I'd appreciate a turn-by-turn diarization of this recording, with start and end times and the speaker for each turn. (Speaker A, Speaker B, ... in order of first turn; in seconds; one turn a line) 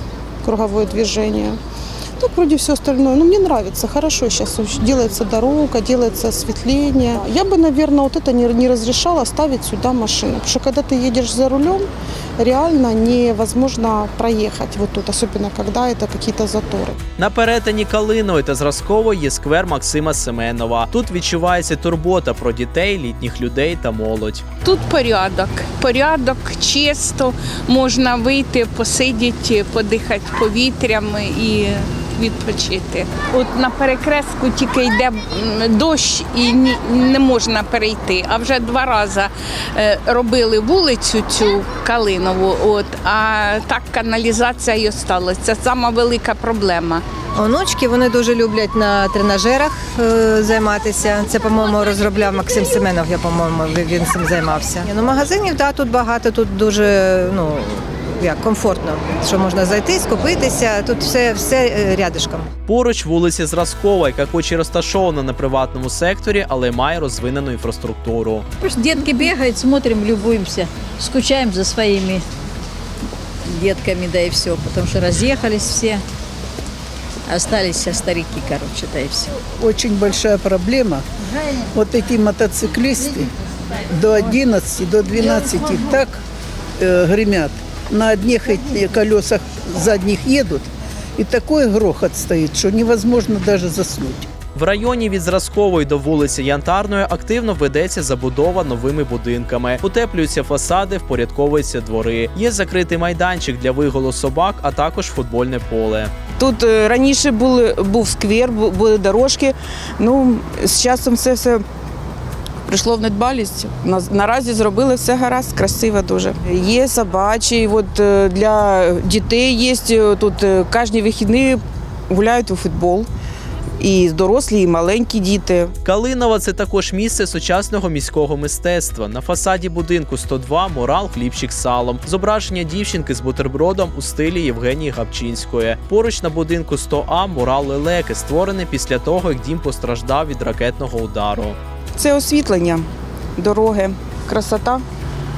Speaker A: 0.4-1.6
Speaker A: 2.2-11.9
Speaker A: 12.4-17.0
Speaker B: 17.2-24.4
Speaker C: 24.6-47.0
Speaker D: 47.4-62.5
Speaker B: 62.7-68.5
Speaker E: 68.6-72.2
Speaker E: 73.5-76.0
Speaker E: 77.3-79.3
Speaker F: 79.6-81.0
Speaker F: 81.7-83.3
Speaker F: 83.9-86.2
Speaker F: 86.8-94.3
Speaker B: 94.5-106.1
Speaker G: 106.4-111.6
Speaker G: 112.7-123.1
Speaker G: 123.8-125.7
Speaker B: 125.8-141.6
Speaker G: 142.0-142.8
Speaker G: 143.4-144.8